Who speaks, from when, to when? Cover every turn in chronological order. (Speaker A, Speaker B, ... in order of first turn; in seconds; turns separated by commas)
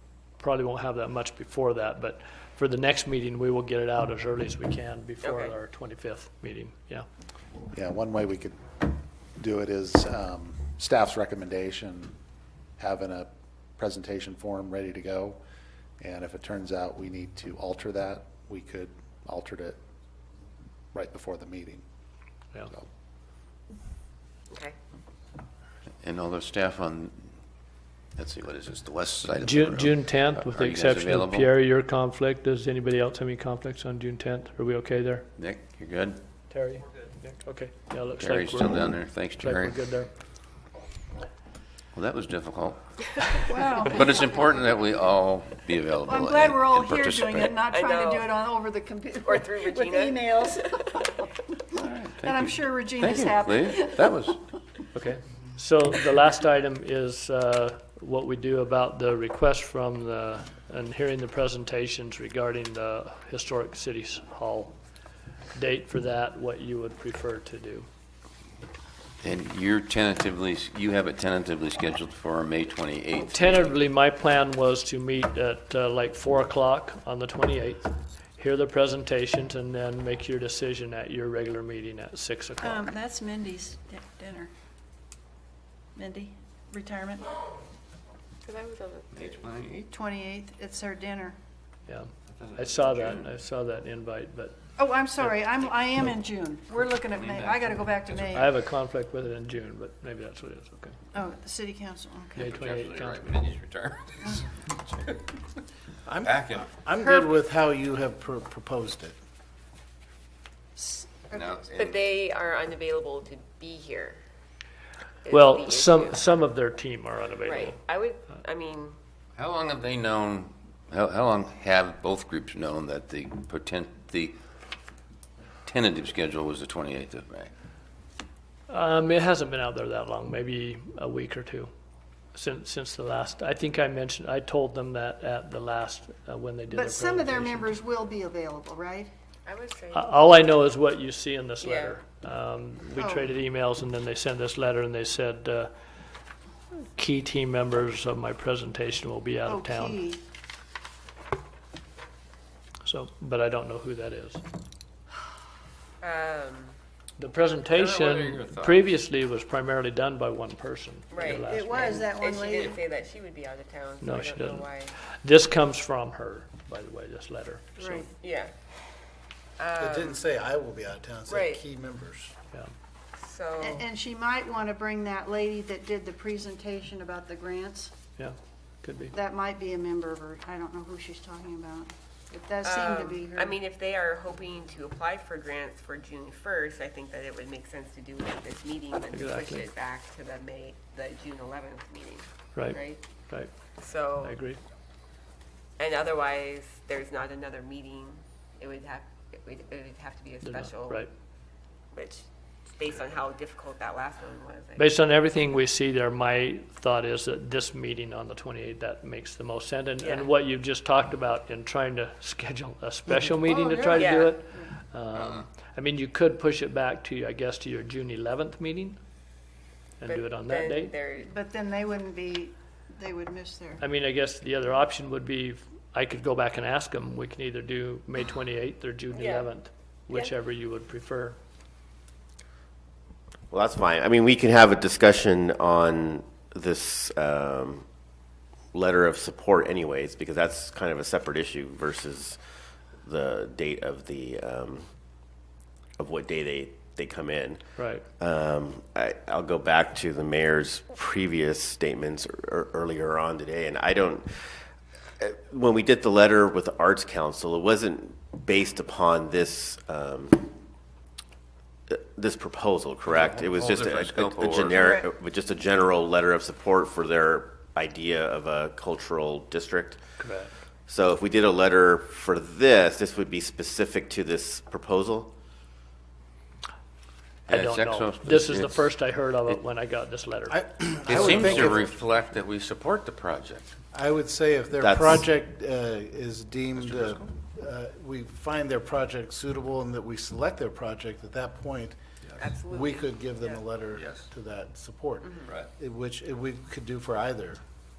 Speaker A: 0.4-7.0, Speaker B: 5.2-5.5, Speaker C: 7.7-8.6, Speaker C: 9.4-12.2, Speaker C: 12.8-15.4, Speaker C: 16.0-19.8, Speaker C: 20.9-21.8, Speaker D: 26.0-27.1, Speaker D: 28.2-31.5, Speaker A: 29.4-35.3, Speaker D: 35.4-36.2, Speaker A: 36.5-40.1, Speaker D: 38.1-39.8, Speaker D: 41.9-47.6, Speaker E: 43.5-43.9, Speaker E: 46.0-51.5, Speaker B: 47.6-48.4, Speaker B: 49.2-51.0, Speaker D: 51.7-54.4, Speaker E: 52.2-54.2, Speaker A: 54.9-64.8, Speaker A: 65.5-67.9, Speaker D: 69.2-73.7, Speaker A: 73.3-82.9, Speaker E: 82.6-84.5, Speaker E: 85.9-87.3, Speaker B: 88.4-89.5, Speaker D: 89.3-89.8, Speaker E: 89.9-91.4, Speaker A: 91.9-94.7, Speaker E: 94.8-98.5, Speaker A: 95.2-96.1, Speaker D: 97.1-98.5, Speaker A: 98.3-100.9, Speaker E: 101.1-102.4, Speaker A: 102.3-103.2, Speaker D: 102.4-104.5, Speaker F: 106.0-109.2, Speaker D: 106.2-106.8, Speaker E: 107.0-107.3, Speaker E: 110.8-111.5, Speaker D: 111.3-112.0, Speaker B: 111.7-114.2, Speaker B: 115.2-116.2, Speaker A: 115.3-117.8, Speaker B: 117.4-119.0, Speaker D: 119.4-124.3, Speaker D: 125.7-127.5, Speaker A: 128.7-131.7, Speaker A: 132.3-137.7, Speaker E: 136.7-139.1, Speaker B: 139.4-140.1, Speaker A: 139.9-145.7, Speaker B: 141.6-142.0, Speaker E: 142.9-143.3, Speaker A: 146.8-150.0, Speaker E: 149.4-150.2, Speaker A: 152.8-154.4, Speaker B: 156.0-156.7, Speaker A: 157.2-162.1, Speaker D: 157.7-158.8, Speaker B: 161.1-165.0, Speaker E: 161.4-162.8, Speaker A: 164.0-168.0, Speaker E: 167.8-168.1, Speaker B: 167.8-168.5, Speaker B: 169.6-170.2, Speaker F: 169.8-172.3, Speaker B: 171.2-171.6, Speaker B: 173.2-173.8, Speaker E: 173.6-177.9, Speaker A: 178.2-179.1, Speaker E: 179.1-183.5, Speaker B: 182.6-193.0, Speaker A: 189.1-189.7, Speaker B: 193.8-194.4, Speaker A: 194.2-194.6, Speaker B: 195.8-201.1, Speaker A: 200.4-201.1, Speaker B: 201.9-204.9, Speaker A: 204.8-219.0, Speaker B: 210.0-210.3, Speaker D: 213.5-213.8, Speaker B: 213.9-214.4, Speaker A: 220.0-220.9, Speaker B: 220.0-221.3, Speaker E: 221.2-223.8, Speaker A: 223.8-231.4, Speaker B: 229.1-229.5, Speaker G: 233.5-237.8, Speaker G: 238.7-242.4, Speaker G: 243.0-244.9, Speaker G: 246.0-247.6, Speaker A: 247.8-248.0, Speaker G: 248.2-254.5, Speaker G: 255.2-260.5, Speaker G: 261.9-270.0, Speaker D: 263.1-264.9, Speaker A: 270.2-270.5, Speaker G: 270.9-275.3, Speaker D: 277.5-278.9, Speaker A: 277.5-281.4, Speaker F: 280.5-281.9, Speaker D: 281.1-283.8, Speaker F: 283.9-291.9, Speaker G: 284.8-285.2, Speaker D: 286.8-287.2, Speaker B: 292.4-293.6, Speaker F: 292.6-297.6, Speaker D: 294.0-294.3, Speaker B: 295.2-295.5